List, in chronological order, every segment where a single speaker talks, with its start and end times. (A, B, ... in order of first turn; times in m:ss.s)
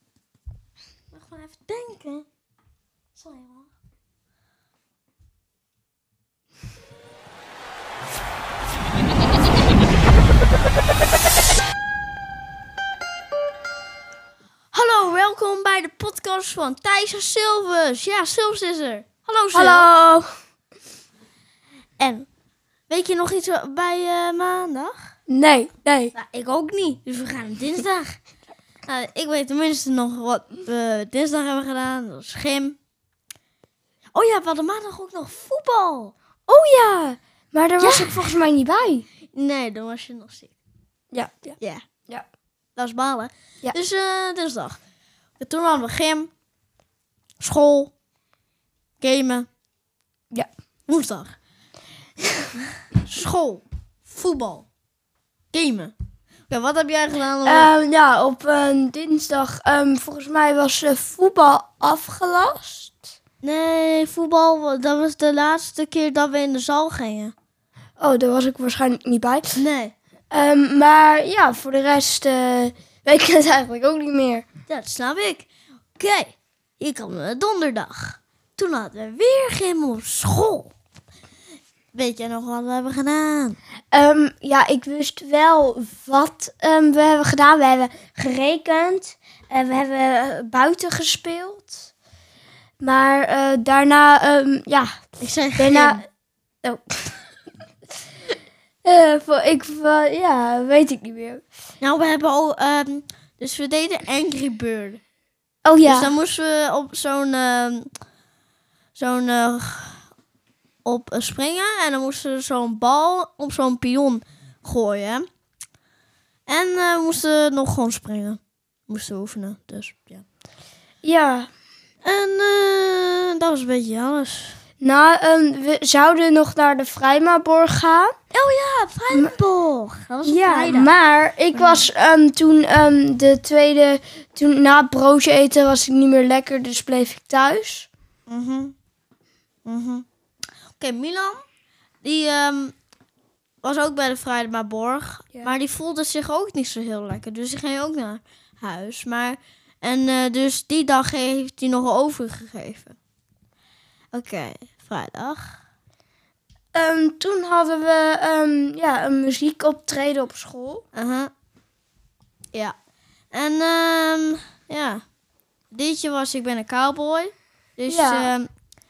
0:01.1-0:02.3 A
0:03.2-0:03.7 A
0:14.7-0:19.9 A
0:19.6-0:20.3 B
0:22.0-0:22.3 A
0:22.9-0:25.0 A
0:25.3-0:26.1 B
0:26.1-0:28.2 A
0:28.9-0:32.8 A
0:34.1-0:36.2 A
0:36.5-0:39.0 B
0:37.8-0:38.2 A
0:39.3-0:40.5 A
0:41.1-0:41.6 B
0:42.8-0:44.8 A
0:45.4-0:46.3 A
0:47.4-0:47.9 A
0:49.0-0:49.5 A
0:50.9-0:51.4 A
0:52.9-0:54.7 A
0:55.5-0:55.9 A
0:56.5-0:57.7 A
0:57.4-1:03.1 B
1:03.4-1:07.3 A
1:08.0-1:09.6 B
1:09.6-1:09.9 A
1:10.3-1:14.5 B
1:14.7-1:20.7 A
1:21.9-1:23.6 A
1:23.9-1:31.9 B
1:32.8-1:34.9 B
1:35.2-1:36.0 A
1:35.6-1:36.0 B
1:36.6-1:37.3 B
1:38.8-1:41.4 B
1:41.8-1:45.0 A
1:45.6-1:46.1 B
1:45.9-1:47.9 A
1:49.0-1:50.0 A
1:50.8-1:55.3 A
1:56.5-2:00.2 A
2:01.0-2:01.5 B
2:02.0-2:04.6 A
2:04.8-2:08.1 B
2:08.3-2:10.9 A
2:10.2-2:17.9 B
2:11.5-2:11.9 A
2:18.3-2:18.8 A
2:19.7-2:20.0 A
2:20.8-2:21.4 A
2:22.0-2:22.7 A
2:23.6-2:33.0 A
2:34.1-2:35.6 A
2:36.8-2:40.8 B
2:41.0-2:41.3 A
2:43.3-2:45.0 A
2:45.7-2:48.5 A
2:47.9-2:48.3 B